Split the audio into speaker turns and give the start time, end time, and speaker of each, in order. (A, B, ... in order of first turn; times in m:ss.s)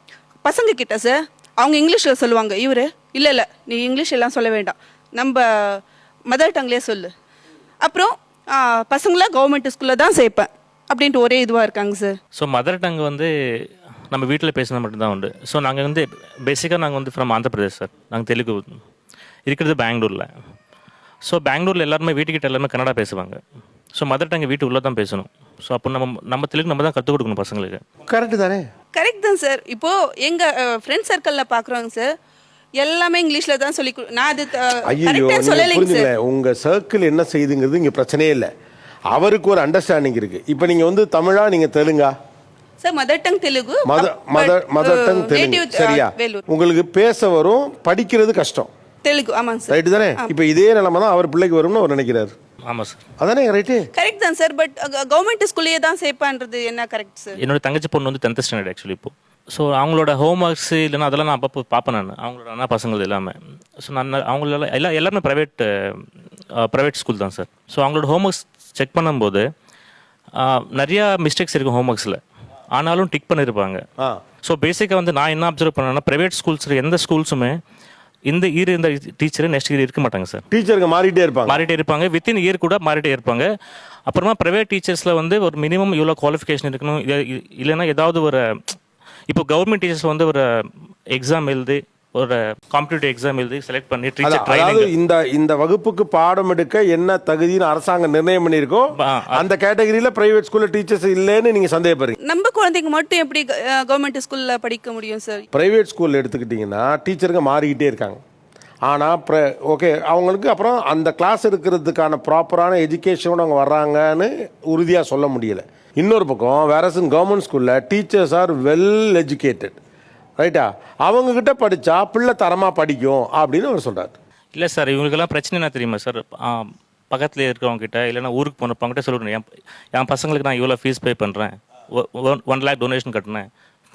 0:00.4-0:07.1 A
0:07.8-0:12.2 A
0:12.4-0:18.8 B
0:19.5-0:20.3 B
0:21.3-0:23.4 B
0:24.0-0:27.8 B
0:28.1-0:28.6 C
0:28.9-0:32.1 A
0:32.8-0:36.1 A
0:34.9-0:38.5 C
0:39.1-0:42.1 C
0:42.8-0:46.4 A
0:43.9-0:48.7 C
0:49.0-0:50.3 A
0:49.7-0:52.3 C
0:52.7-0:53.0 B
0:53.2-0:53.8 C
0:53.9-0:57.4 A
0:57.4-1:06.1 B
1:06.6-1:09.4 B
1:10.3-1:12.2 B
1:12.7-1:13.8 B
1:14.4-1:17.6 B
1:18.3-1:20.4 B
1:20.5-1:21.6 C
1:21.5-1:23.5 B
1:24.1-1:28.8 B
1:29.3-1:30.4 B
1:31.1-1:34.9 B
1:34.2-1:42.2 C
1:39.0-1:39.5 B
1:42.2-1:45.5 A
1:45.5-1:48.2 C
1:48.9-1:59.8 C
2:00.4-2:04.2 C
2:04.6-2:13.5 B